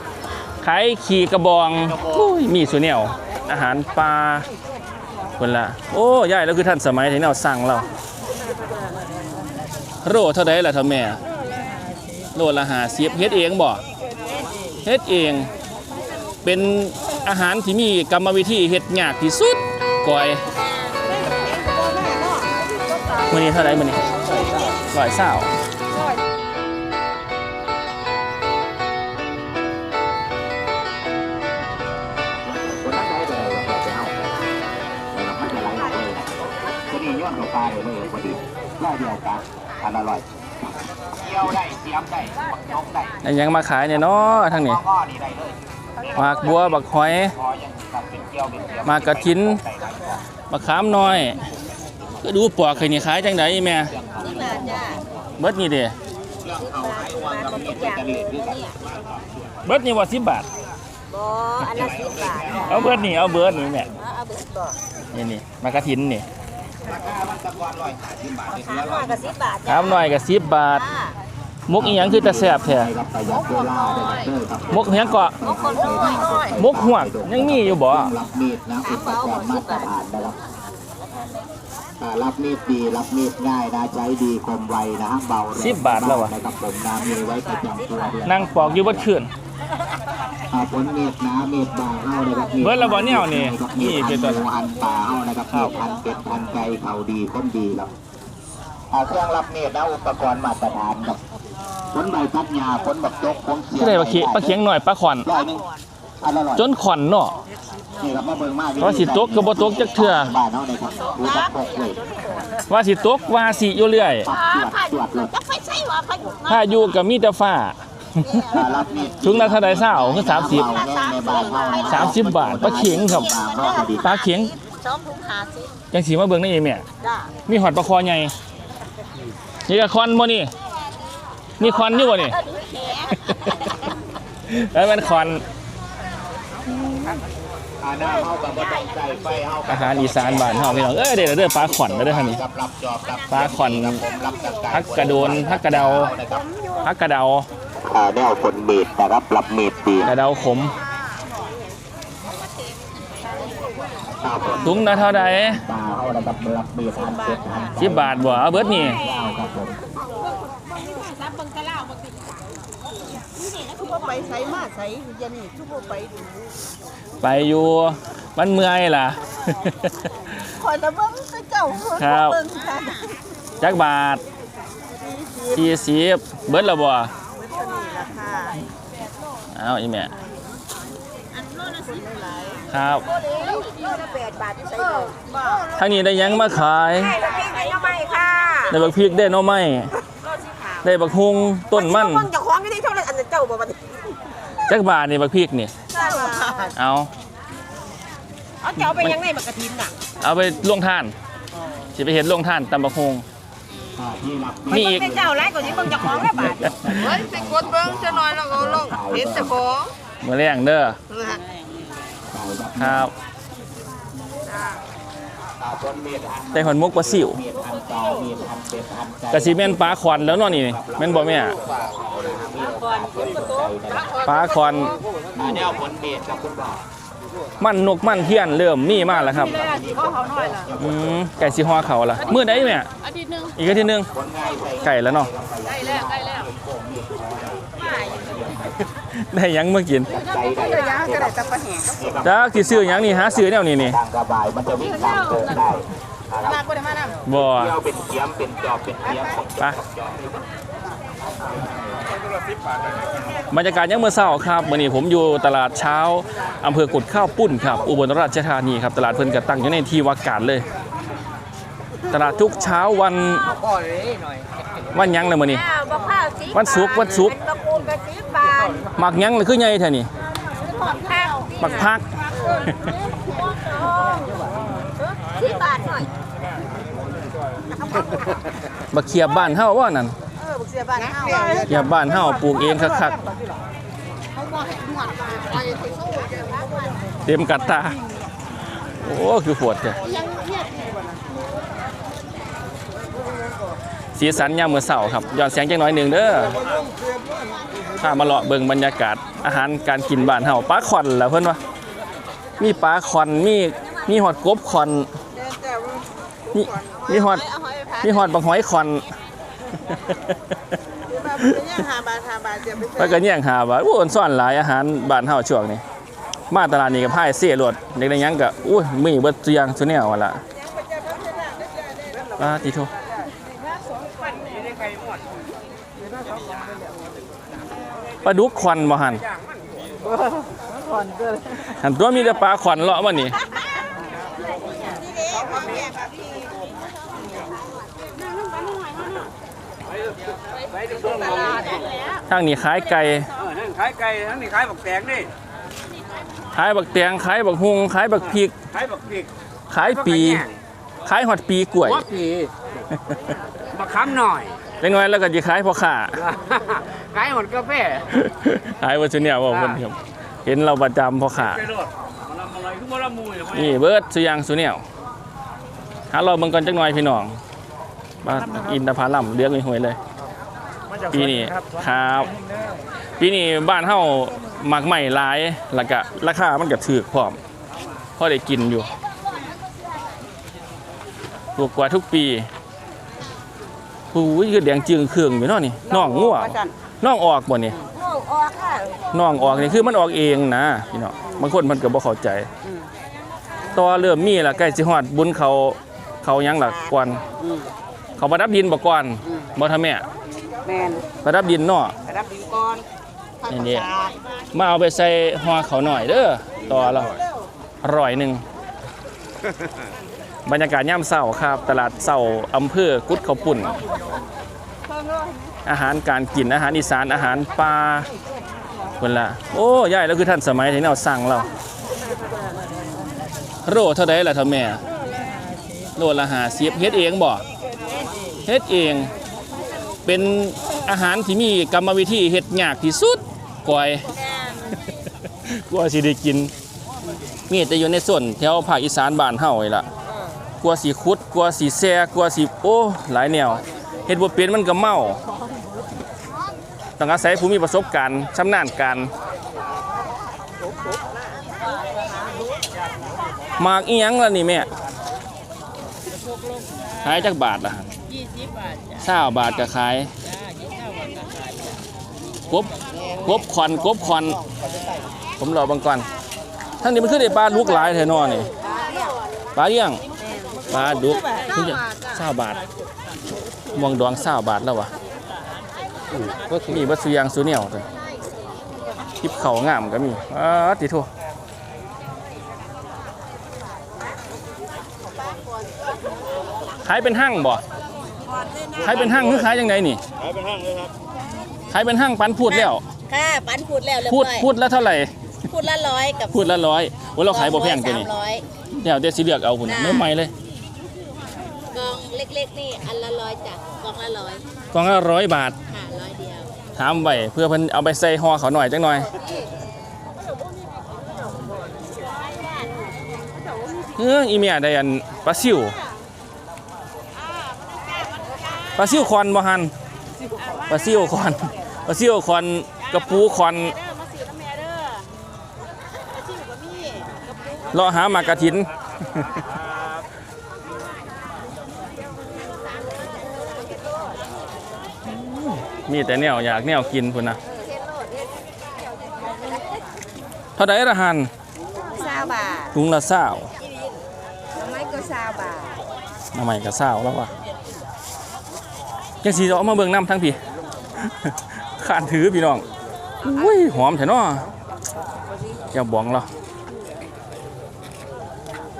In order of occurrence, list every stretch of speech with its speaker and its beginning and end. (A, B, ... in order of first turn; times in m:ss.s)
0:00.6-0:04.5 A
0:05.4-0:07.9 A
0:10.0-0:11.2 A
0:12.4-0:13.8 A
0:14.8-0:15.5 A
0:16.4-0:20.4 A
0:21.3-0:22.3 B
0:23.3-0:24.1 A
0:24.9-0:25.5 A
0:32.4-0:34.2 C
0:35.1-0:36.3 C
0:36.9-0:43.2 C
0:43.2-0:44.8 A
0:44.5-0:46.5 C
0:46.1-0:47.3 A
0:47.3-0:50.2 C
0:48.8-0:49.6 A
0:50.5-0:51.4 A
0:52.2-0:53.9 A
0:52.9-0:55.1 C
0:54.2-0:55.0 D
0:55.4-0:55.9 A
0:56.4-0:59.7 C
0:56.6-0:58.8 D
0:59.6-1:00.5 A
1:01.1-1:03.0 D
1:01.7-1:04.0 C
1:02.7-1:03.9 A
1:04.0-1:04.8 D
1:05.1-1:06.3 A
1:06.8-1:09.3 C
1:08.5-1:11.2 D
1:09.7-1:10.8 A
1:11.7-1:12.9 A
1:11.8-1:20.4 C
1:13.3-1:14.3 D
1:14.7-1:15.4 A
1:15.4-1:16.6 D
1:16.6-1:18.1 A
1:18.8-1:19.9 D
1:22.0-1:29.1 C
1:25.5-1:26.3 A
1:27.7-1:28.2 D
1:28.2-1:29.3 A
1:30.5-1:37.9 C
1:32.6-1:34.4 A
1:38.9-1:41.2 C
1:41.9-1:44.6 C
1:43.8-1:45.3 A
1:45.2-1:45.6 C
1:45.3-1:45.6 D
1:46.2-1:46.7 C
1:46.6-1:47.4 A
1:48.0-1:52.0 C
1:48.8-1:50.3 A
1:50.8-1:52.6 D
1:52.7-1:54.3 A
1:54.2-1:55.3 C
1:54.3-1:57.0 D
1:56.5-1:58.5 A
1:58.2-1:59.1 D
1:58.5-2:04.1 C
1:59.2-2:00.7 A
2:00.4-2:05.7 D
2:01.9-2:03.3 A
2:04.0-2:04.5 A
2:05.9-2:06.8 A
2:07.0-2:07.3 D
2:07.5-2:08.3 A
2:09.7-2:10.5 A
2:11.6-2:12.4 A
2:11.6-2:13.9 D
2:13.2-2:13.7 A
2:14.5-2:15.4 A
2:16.7-2:17.2 A
2:17.8-2:26.5 C
2:19.7-2:22.4 A
2:23.3-2:24.0 A
2:24.7-2:26.1 A
2:24.8-2:25.4 D
2:26.3-2:26.8 D
2:26.8-2:27.5 A
2:27.8-2:30.2 C
2:30.0-2:30.7 A
2:33.4-2:33.6 D
2:34.0-2:39.8 C
2:34.2-2:34.7 D
2:34.6-2:35.6 A
2:36.9-2:37.9 D
2:37.8-2:39.0 A
2:38.5-2:39.2 D
2:40.4-2:42.2 D
2:43.4-2:46.0 D
2:45.0-2:46.2 B
2:47.2-2:50.5 A
2:50.6-2:53.0 D
2:52.0-2:52.4 A
2:53.6-2:54.2 A
2:55.1-2:55.6 B
2:55.5-2:57.1 A
2:57.4-2:58.6 B
2:59.5-3:00.1 A
3:01.4-3:01.7 D
3:01.7-3:03.9 B
3:02.5-3:05.6 D
3:02.7-3:03.1 A
3:05.2-3:08.7 B
3:05.8-3:07.2 A
3:06.9-3:08.8 D
3:08.7-3:09.9 A
3:10.3-3:10.7 B
3:10.8-3:12.3 A
3:11.7-3:13.8 D
3:14.7-3:15.7 A
3:15.9-3:16.8 D
3:15.9-3:16.7 B
3:16.8-3:17.1 A
3:18.6-3:19.9 D
3:20.2-3:21.1 A
3:22.0-3:23.2 A
3:24.0-3:29.6 C
3:24.7-3:27.2 D
3:24.7-3:25.1 A
3:27.0-3:29.8 B
3:30.2-3:31.0 A
3:31.1-3:31.4 B
3:32.3-3:33.1 C
3:32.8-3:33.1 A
3:35.6-3:44.2 C
3:36.5-3:37.4 A
3:39.3-3:41.6 A
3:43.9-3:45.0 B
3:44.2-3:45.0 A
3:45.3-3:46.8 C
3:47.6-3:49.6 A
3:49.0-3:50.7 B
3:49.3-3:52.6 C
3:50.8-3:52.9 A
3:53.0-3:53.5 B
3:53.6-3:54.1 A
3:54.1-3:58.7 C
3:54.8-3:55.3 A
3:55.7-3:56.3 B
3:59.1-4:00.1 A
4:00.1-4:01.4 C
4:00.2-4:02.2 B
4:02.0-4:06.6 C
4:02.2-4:04.0 A
4:06.4-4:07.2 B
4:07.3-4:07.8 A
4:07.4-4:10.5 C
4:11.4-4:12.1 C
4:13.5-4:20.7 A
4:22.1-4:23.5 A
4:23.5-4:24.4 E
4:24.9-4:25.6 A
4:25.4-4:28.9 D
4:26.5-4:27.3 A
4:29.0-4:30.1 A
4:30.6-4:34.4 D
4:31.6-4:32.1 A
4:32.3-4:32.7 B
4:35.2-4:36.1 D
4:37.8-4:38.1 D
4:38.9-4:40.2 A
4:40.4-4:41.9 D
4:40.9-4:43.1 B
4:41.7-4:43.2 A
4:44.3-4:47.3 B
4:47.2-4:48.0 A
4:49.0-4:50.0 A
4:50.0-4:51.2 B
4:54.2-4:56.6 A
4:58.0-5:01.6 A
5:02.6-5:05.1 A
5:05.3-5:07.0 B
5:06.5-5:07.4 A
5:07.1-5:08.3 D
5:08.0-5:09.0 A
5:09.9-5:10.3 A
5:11.1-5:13.2 B
5:13.0-5:15.8 A
5:16.5-5:20.4 A
5:21.1-5:21.9 B
5:22.4-5:22.9 A
5:24.5-5:25.2 E
5:28.2-5:29.2 A
5:31.7-5:33.4 A
5:34.8-5:36.5 D
5:35.3-5:35.9 B
5:40.6-5:41.9 E
5:41.2-5:42.0 D
5:42.3-5:43.3 A
5:43.3-5:45.3 E
5:46.5-5:48.5 A
5:48.2-5:49.3 E
5:49.7-5:50.4 A
5:49.8-5:50.5 E
5:51.1-5:52.1 A
5:51.8-5:52.5 E
5:53.7-5:54.6 E
5:54.8-5:56.2 A
5:56.2-5:58.1 E
5:58.1-6:01.7 A
5:59.5-5:59.8 E
6:01.6-6:03.8 E
6:03.5-6:04.8 A
6:06.1-6:07.4 A
6:08.2-6:10.0 A
6:10.9-6:11.7 E
6:11.1-6:12.3 A
6:13.2-6:17.4 A
6:18.2-6:18.9 A
6:21.6-6:22.5 A
6:24.1-6:27.8 A
6:25.9-6:26.7 B
6:27.9-6:29.0 D
6:29.1-6:32.5 A
6:33.7-6:37.2 A
6:37.4-6:37.7 B
6:38.2-6:40.0 A
6:39.2-6:39.5 B
6:40.7-6:41.0 B
6:41.2-6:42.0 A
6:42.1-6:42.8 B
6:43.5-6:43.9 A
6:43.5-6:44.1 B
6:44.5-6:47.1 A
6:46.7-6:47.2 E
6:47.8-6:48.4 A
6:50.5-6:53.8 A
6:55.7-6:58.1 A
6:59.0-7:01.5 A
7:03.6-7:04.8 A
7:06.0-7:07.4 A
7:08.4-7:09.1 A
7:10.1-7:14.1 A
7:14.3-7:14.6 D
7:15.5-7:16.5 A
7:17.5-7:19.8 A
7:20.6-7:25.2 A
7:27.0-7:29.1 A
7:33.6-7:34.7 A
7:37.0-7:37.9 A
7:39.0-7:40.1 A
7:43.2-7:44.4 A
7:45.4-7:46.1 A
7:46.8-7:48.5 A
7:47.6-7:49.1 D
7:49.6-7:50.0 A
7:50.2-7:50.5 D
7:50.7-7:52.6 A
7:50.7-7:51.6 B
7:53.7-7:54.9 A
7:56.1-7:56.9 E
7:56.7-7:57.9 A
7:59.2-8:01.1 A
8:05.3-8:05.9 D
8:06.8-8:07.6 A
8:08.8-8:10.0 A
8:10.5-8:10.8 E
8:11.7-8:12.8 A
8:13.1-8:14.5 D
8:14.0-8:15.1 A
8:15.5-8:16.6 D
8:16.3-8:18.1 A
8:17.3-8:18.4 D
8:18.7-8:20.3 A
8:19.7-8:20.1 D
8:21.7-8:24.4 D
8:24.7-8:25.6 A
8:25.7-8:26.5 D
8:26.8-8:29.1 A
8:32.0-8:32.7 D
8:34.0-8:35.8 A
8:37.5-8:38.8 D
8:38.8-8:39.7 A
8:40.7-8:43.8 A
8:43.8-8:45.0 D
8:46.3-8:47.1 D
8:47.7-8:49.4 A
8:55.1-8:57.4 A
8:57.5-8:58.3 D
8:59.2-8:59.7 D
9:00.6-9:01.3 A
9:01.9-9:02.7 D
9:02.7-9:03.5 A
9:04.5-9:05.8 D
9:06.3-9:07.3 A
9:09.2-9:10.4 A
9:11.0-9:12.6 A
9:13.2-9:14.5 A
9:15.7-9:16.3 A